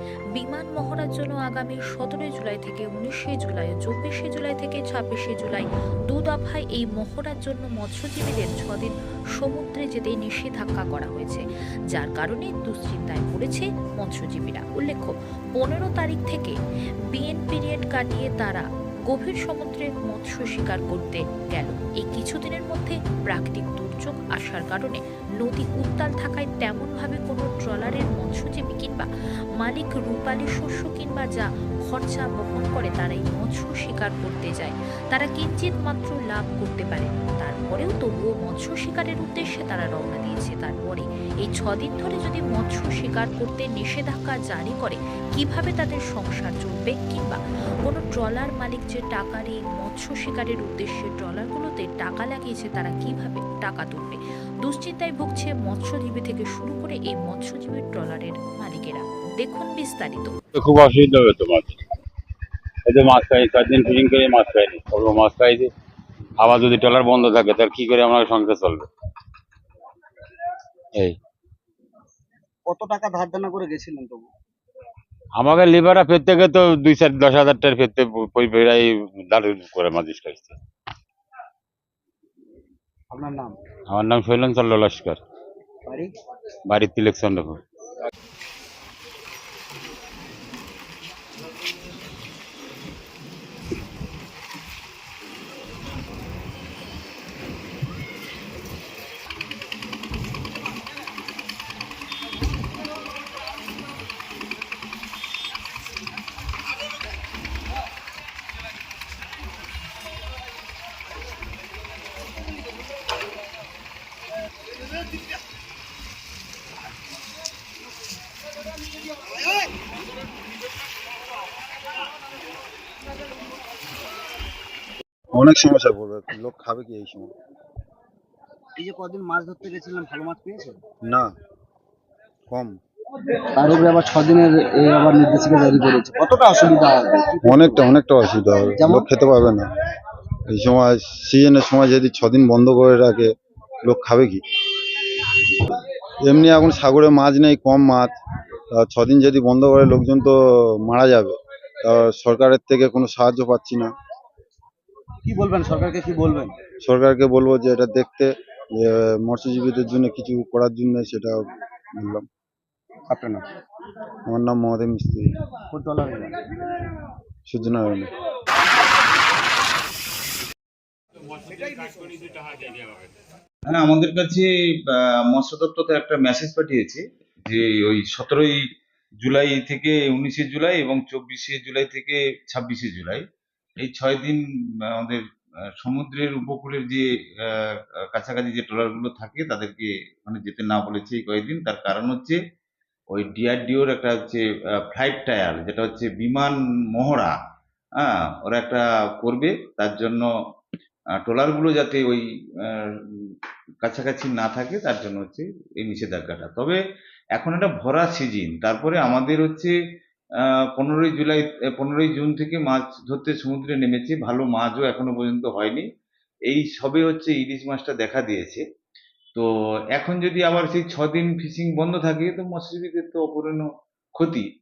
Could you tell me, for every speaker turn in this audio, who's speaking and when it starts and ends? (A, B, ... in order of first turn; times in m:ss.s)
0:00.3-0:16.6 A
0:17.1-0:29.1 A
0:29.6-1:00.3 A
1:00.5-1:01.8 B
1:02.9-1:05.7 B
1:06.4-1:08.9 B
1:12.6-1:14.3 C
1:15.4-1:20.6 B
1:23.1-1:23.6 C
1:23.9-1:25.2 B
1:25.8-1:26.2 C
1:26.7-1:27.6 B
2:05.3-2:07.3 D
2:08.8-2:10.8 C
2:11.0-2:11.3 D
2:12.5-2:12.8 D
2:13.4-2:17.9 C
2:17.4-2:19.7 D
2:18.8-2:19.1 C
2:20.5-2:23.3 D
2:23.8-2:24.4 D
2:26.2-2:28.1 D
2:28.7-2:33.9 D
2:35.2-2:36.6 C
2:36.8-2:41.4 D
2:42.0-2:42.2 D
2:43.1-2:43.4 C
2:44.3-2:45.3 D
2:45.7-2:46.4 C
2:47.5-2:48.1 D
2:51.3-2:53.1 B
2:53.7-2:58.6 E
2:59.2-3:03.2 E
3:03.8-3:05.2 E
3:05.8-3:12.4 E
3:13.1-3:17.3 E
3:18.0-3:20.3 E
3:21.2-3:26.8 E
3:27.3-3:29.7 E
3:30.4-3:35.8 E
3:36.5-3:38.6 E
3:39.3-3:44.4 E